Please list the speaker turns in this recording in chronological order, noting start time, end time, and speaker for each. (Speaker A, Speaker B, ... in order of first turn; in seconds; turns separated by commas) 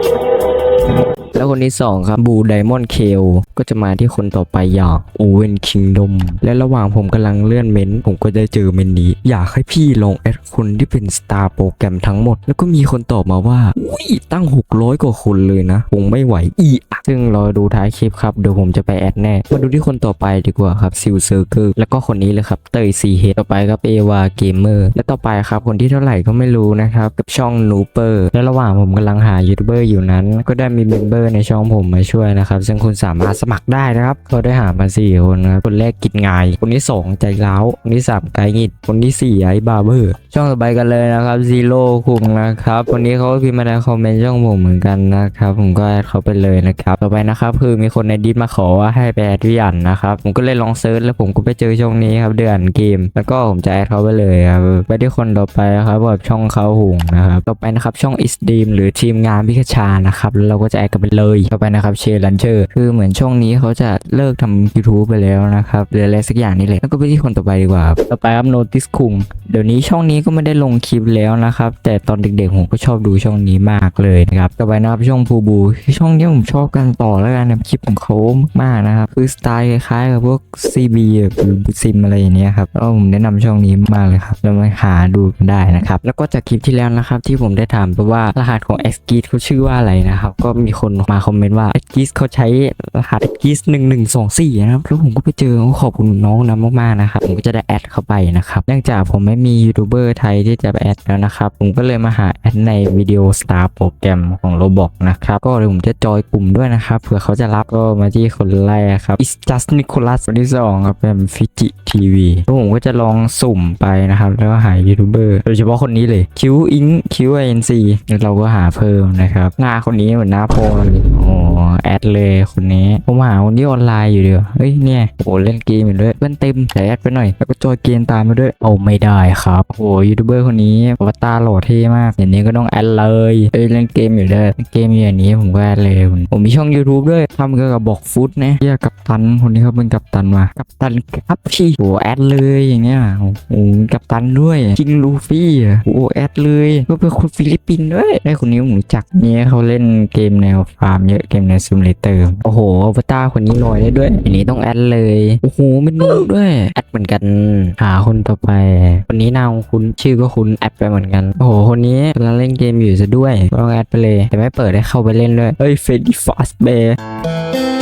Speaker A: 1.3-167.0